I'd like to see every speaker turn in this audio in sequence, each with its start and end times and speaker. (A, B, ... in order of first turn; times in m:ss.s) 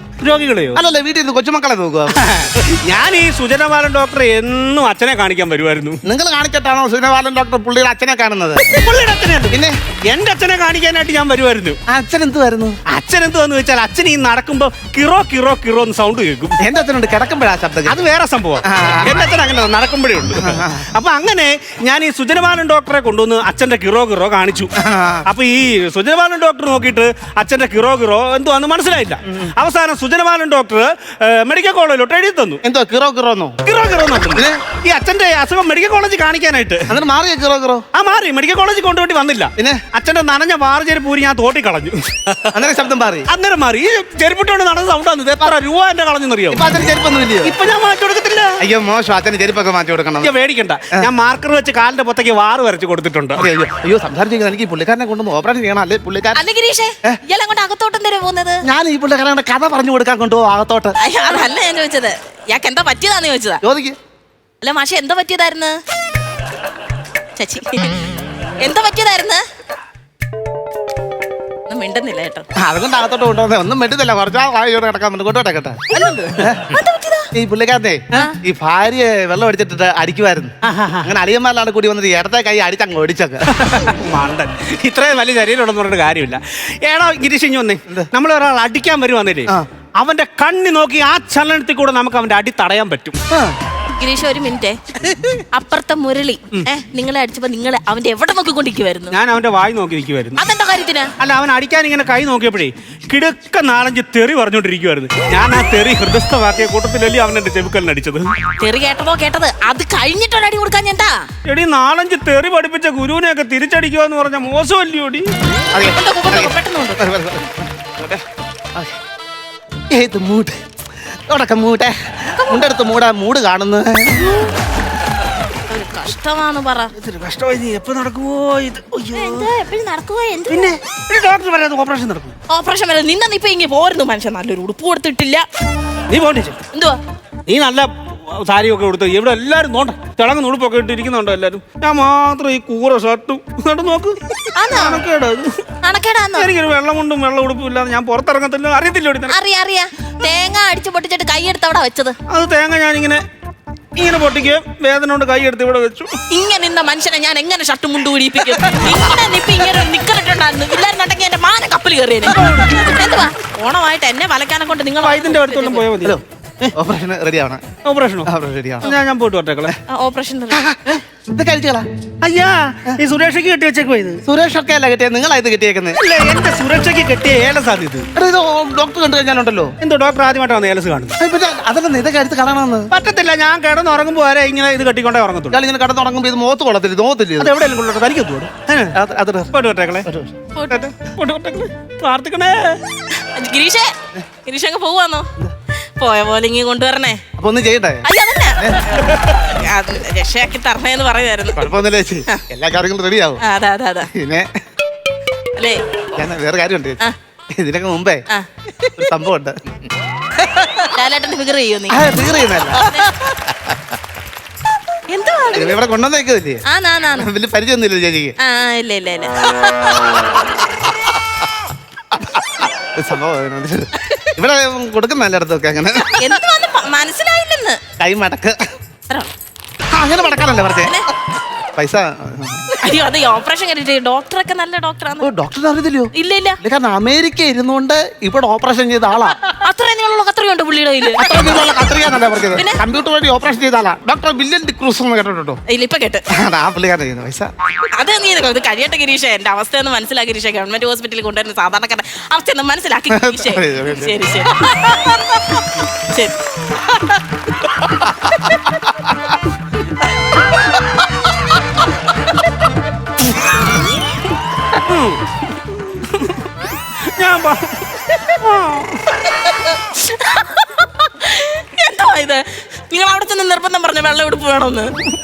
0:00.2-0:00.8 A
0:00.7-0:02.2 B
0:02.1-0:06.0 A
0:06.0-0:08.7 B
0:08.6-0:11.8 A
0:11.9-0:12.8 B
0:12.9-0:16.6 A
0:16.6-0:17.9 B
0:17.9-0:24.7 A
0:18.6-0:19.1 B
0:20.4-0:20.8 B
0:24.8-0:25.2 B
0:25.2-0:32.6 A
0:32.6-0:33.6 B
0:33.6-0:36.9 A
0:36.9-0:37.8 B
0:37.9-0:42.6 A
0:39.6-0:39.8 B
0:42.5-0:43.3 B
0:43.3-0:46.6 A
0:46.5-0:47.6 B
0:47.4-0:48.6 A
0:48.6-0:50.3 B
0:50.2-0:53.4 A
0:53.4-0:56.4 B
0:56.3-0:58.6 C
0:58.6-1:00.9 B
1:01.0-1:03.6 C
1:03.6-1:04.0 B
1:04.6-1:05.8 C
1:07.4-1:09.4 C
1:11.7-1:12.4 C
1:12.6-1:15.8 B
1:15.9-1:16.6 A
1:16.4-1:16.7 B
1:16.7-1:17.3 C
1:17.3-1:23.5 B
1:20.6-1:21.1 A
1:23.5-1:33.2 A
1:33.9-1:34.8 C
1:35.5-1:39.2 C
1:39.1-1:40.4 A
1:40.4-1:41.1 C
1:41.2-1:48.3 A
1:48.6-1:51.3 C
1:51.4-1:55.3 A
1:55.7-1:58.2 B
1:55.9-1:57.0 C
1:59.9-2:00.6 B
2:01.3-2:04.3 B
2:02.4-2:02.7 C
2:05.6-2:06.9 C
2:07.0-2:09.5 A
2:09.1-2:10.7 C
2:10.5-2:12.3 A
2:12.5-2:15.4 C
2:16.1-2:16.6 A
2:16.7-2:17.0 C
2:17.5-2:25.6 A
2:24.5-2:25.0 C
2:25.8-2:26.5 C
2:26.4-2:29.3 A
2:29.3-2:32.2 C
2:32.3-2:33.2 A
2:34.0-2:36.1 A
2:36.3-2:45.9 C
2:42.4-2:42.8 A
2:45.0-2:46.7 A
2:46.7-2:47.6 B
2:47.8-2:48.3 A
2:48.2-2:48.9 B
2:48.8-2:49.7 A
2:49.9-2:50.6 C
2:50.5-2:51.8 B
2:52.2-2:54.2 A
2:54.2-2:56.0 B
2:56.0-2:58.0 A
2:58.1-2:59.7 B
2:59.8-3:01.1 A
3:01.2-3:02.9 B
3:02.9-3:05.6 A
3:05.5-3:07.5 B
3:07.4-3:08.9 A
3:08.9-3:09.5 B
3:09.5-3:10.1 A
3:10.0-3:10.3 B
3:10.5-3:10.9 C
3:10.7-3:12.8 A
3:13.3-3:13.9 C
3:14.4-3:15.3 C
3:16.0-3:17.2 C
3:17.4-3:18.0 B
3:18.0-3:21.7 C
3:18.6-3:19.0 B
3:21.6-3:23.4 B
3:23.4-3:24.1 C
3:24.1-3:24.5 B
3:25.6-3:25.8 C
3:26.1-3:27.0 B
3:27.6-3:28.2 B
3:28.3-3:29.1 C
3:29.0-3:29.8 B
3:30.4-3:32.1 C
3:31.9-3:33.0 B
3:32.7-3:33.2 C
3:33.5-3:33.8 B
3:35.1-3:35.8 C
3:35.5-3:36.6 B
3:36.6-3:37.3 C
3:37.1-3:38.3 B
3:38.4-3:39.3 C
3:42.1-3:46.3 B
3:46.0-3:47.8 C
3:48.0-3:48.6 B
3:49.9-3:51.0 B
3:50.8-3:51.1 C
3:51.8-3:52.7 B
3:52.8-3:55.3 C
3:55.2-3:59.4 B
3:56.1-3:56.6 C
3:59.5-4:01.3 C
4:01.2-4:05.6 B
4:02.5-4:02.8 C
4:05.7-4:06.2 C
4:06.3-4:07.5 B
4:08.0-4:16.4 C
4:13.1-4:14.2 B
4:24.9-4:26.5 A
4:27.0-4:29.2 A
4:29.2-4:35.0 C